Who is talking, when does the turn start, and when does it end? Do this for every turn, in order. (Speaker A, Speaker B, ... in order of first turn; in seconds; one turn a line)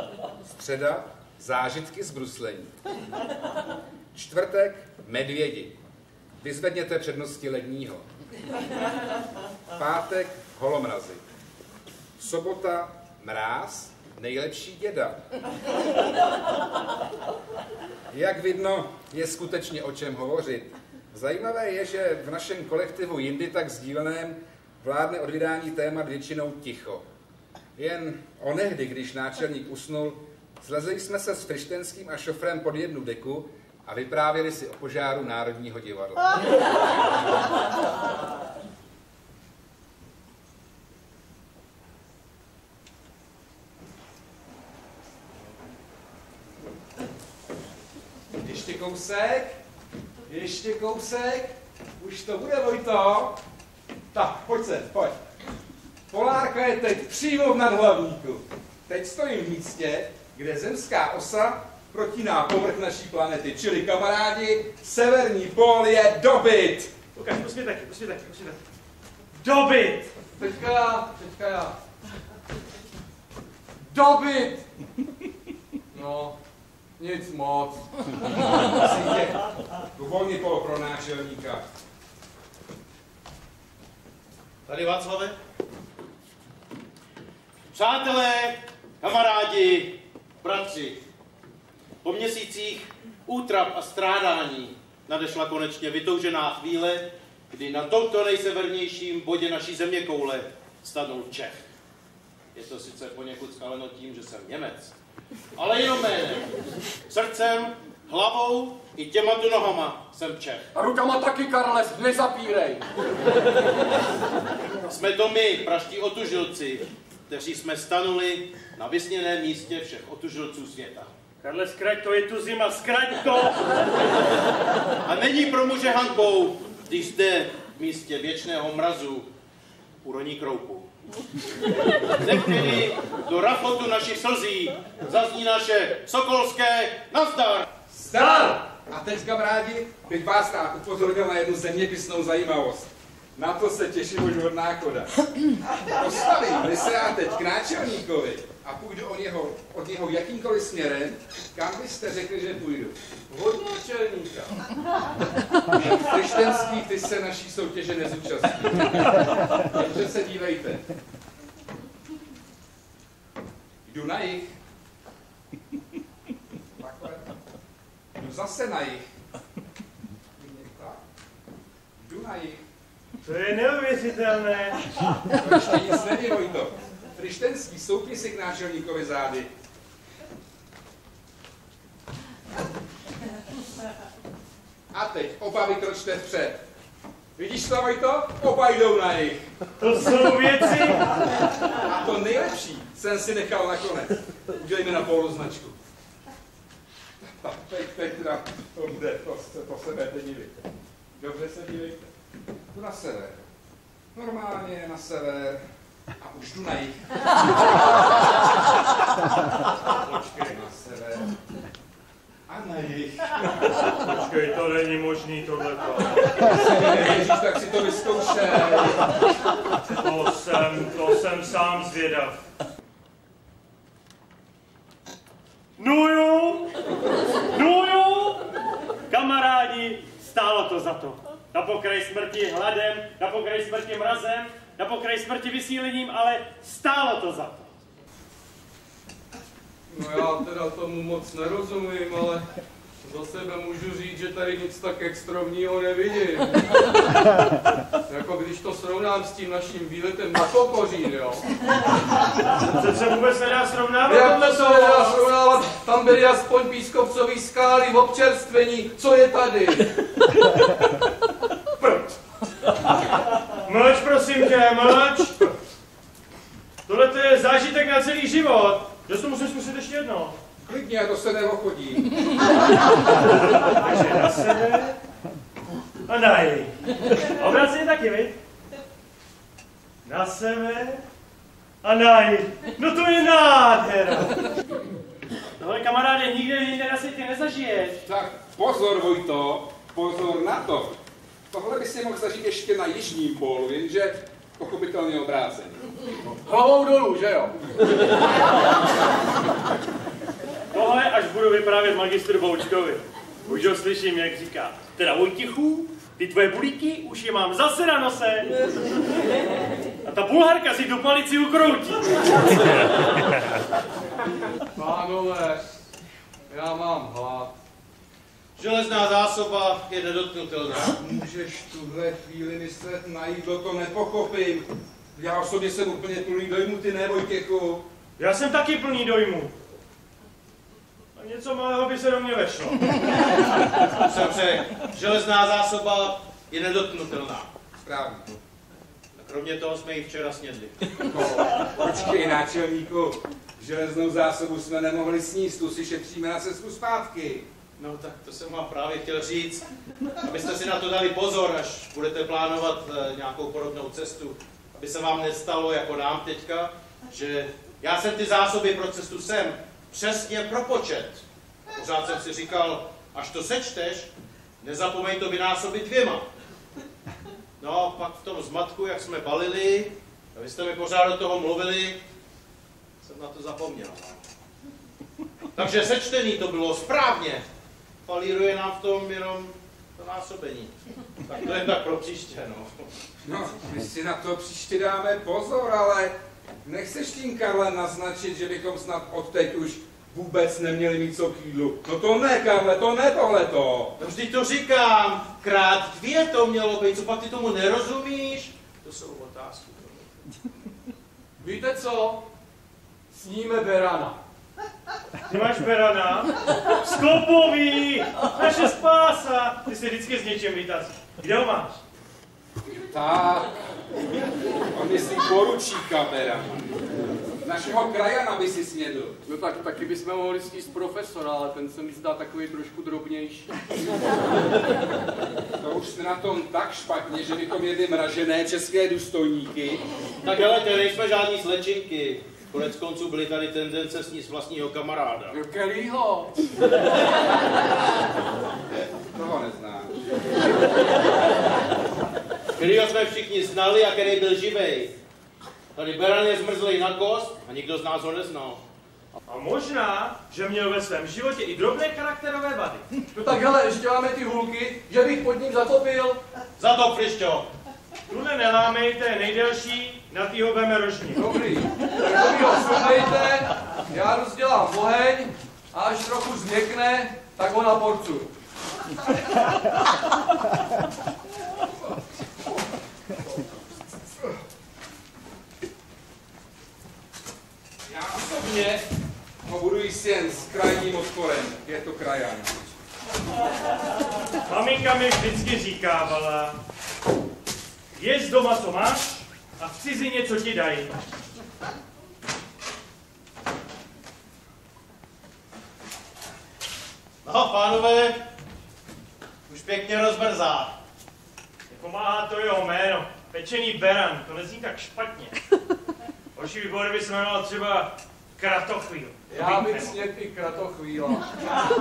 Speaker A: 0.5-2.7
Speaker A: 4.1-5.8
Speaker A: 6.4-8.1
Speaker A: 9.7-11.2
Speaker A: 12.2-15.2
Speaker A: 18.1-27.0
Speaker A: 27.8-36.4
Speaker A: 48.4-49.6
Speaker A: 50.3-53.4
Speaker A: 54.1-55.2
Speaker A: 56.1-66.9
Speaker B: 67.1-68.6
Speaker B: 69.3-70.2
Speaker C: 70.3-71.8
Speaker C: 73.9-74.6
Speaker C: 75.9-76.4
Speaker C: 77.0-77.9
Speaker A: 78.7-79.4
Speaker A: 79.9-81.6
Speaker D: 84.7-85.3
Speaker D: 87.7-91.0
Speaker D: 92.0-101.7
Speaker D: 102.5-105.0
Speaker D: 105.5-106.5
Speaker D: 107.1-110.7
Speaker C: 110.7-112.8
Speaker D: 114.8-121.1
Speaker B: 121.4-123.8
Speaker D: 125.0-129.3
Speaker D: 130.0-130.9
Speaker D: 132.2-137.7
Speaker A: 137.9-145.1
Speaker B: 138.2-138.5
Speaker A: 145.9-152.9
Speaker C: 153.3-154.6
Speaker A: 155.7-160.8
Speaker A: 163.8-164.5
Speaker A: 166.7-167.3
Speaker A: 168.2-169.0
Speaker A: 170.3-171.0
Speaker A: 172.0-172.6
Speaker B: 173.2-174.8
Speaker A: 175.3-179.5
Speaker A: 184.9-186.6
Speaker A: 187.4-189.4
Speaker B: 189.8-191.3
Speaker A: 191.8-195.8
Speaker A: 197.3-200.6
Speaker A: 201.2-202.1
Speaker A: 202.7-203.5
Speaker A: 204.1-205.6
Speaker A: 206.2-207.3
Speaker B: 210.0-210.5
Speaker A: 210.4-211.3
Speaker A: 212.5-213.5
Speaker B: 214.0-216.5
Speaker A: 216.5-219.1
Speaker B: 220.0-222.4
Speaker B: 225.8-226.7
Speaker B: 227.4-228.5
Speaker B: 229.1-237.7
Speaker C: 239.9-242.5
Speaker C: 243.0-247.4
Speaker C: 248.1-251.4
Speaker B: 252.7-255.2
Speaker C: 254.0-259.9
Speaker C: 261.8-262.1
Speaker B: 263.6-265.5
Speaker B: 266.9-270.4
Speaker A: 270.6-272.1
Speaker B: 273.8-274.9
Speaker B: 276.1-278.4
Speaker B: 280.0-281.0
Speaker B: 281.8-284.4
Speaker B: 285.6-288.0
Speaker A: 288.1-290.9
Speaker A: 291.5-295.8
Speaker C: 296.4-297.5
Speaker B: 300.7-308.6
Speaker B: 310.0-313.1
Speaker C: 314.7-315.6
Speaker C: 316.5-317.5
Speaker D: 318.6-320.9
Speaker A: 320.8-327.8
Speaker B: 328.2-329.5
Speaker B: 331.1-333.0
Speaker D: 333.9-337.5
Speaker A: 337.8-338.3
Speaker D: 339.1-341.0
Speaker A: 341.1-347.4
Speaker D: 347.8-349.7
Speaker D: 350.2-366.3
Speaker D: 367.6-372.0
Speaker D: 373.0-374.2
Speaker D: 375.5-377.4
Speaker D: 378.1-380.7
Speaker D: 381.2-382.9
Speaker A: 383.2-386.1
Speaker A: 386.6-393.9
Speaker D: 394.0-400.0
Speaker C: 401.4-402.2
Speaker C: 403.1-404.2
Speaker B: 405.3-411.8
Speaker A: 412.7-413.5
Speaker A: 414.7-416.7
Speaker A: 417.4-419.2
Speaker C: 419.2-423.5
Speaker A: 425.6-429.8
Speaker D: 430.2-435.4
Speaker C: 435.3-436.3
Speaker A: 438.7-440.0
Speaker D: 442.6-444.9
Speaker D: 445.7-448.6
Speaker B: 449.3-452.9
Speaker C: 453.1-456.2
Speaker D: 456.6-457.5
Speaker B: 458.1-461.3
Speaker C: 461.1-468.3
Speaker A: 477.9-478.8
Speaker A: 479.4-482.7
Speaker B: 484.5-486.6
Speaker B: 487.9-490.9
Speaker D: 497.2-498.2
Speaker D: 499.5-500.7
Speaker B: 501.7-505.4
Speaker B: 506.3-509.9
Speaker C: 509.3-511.3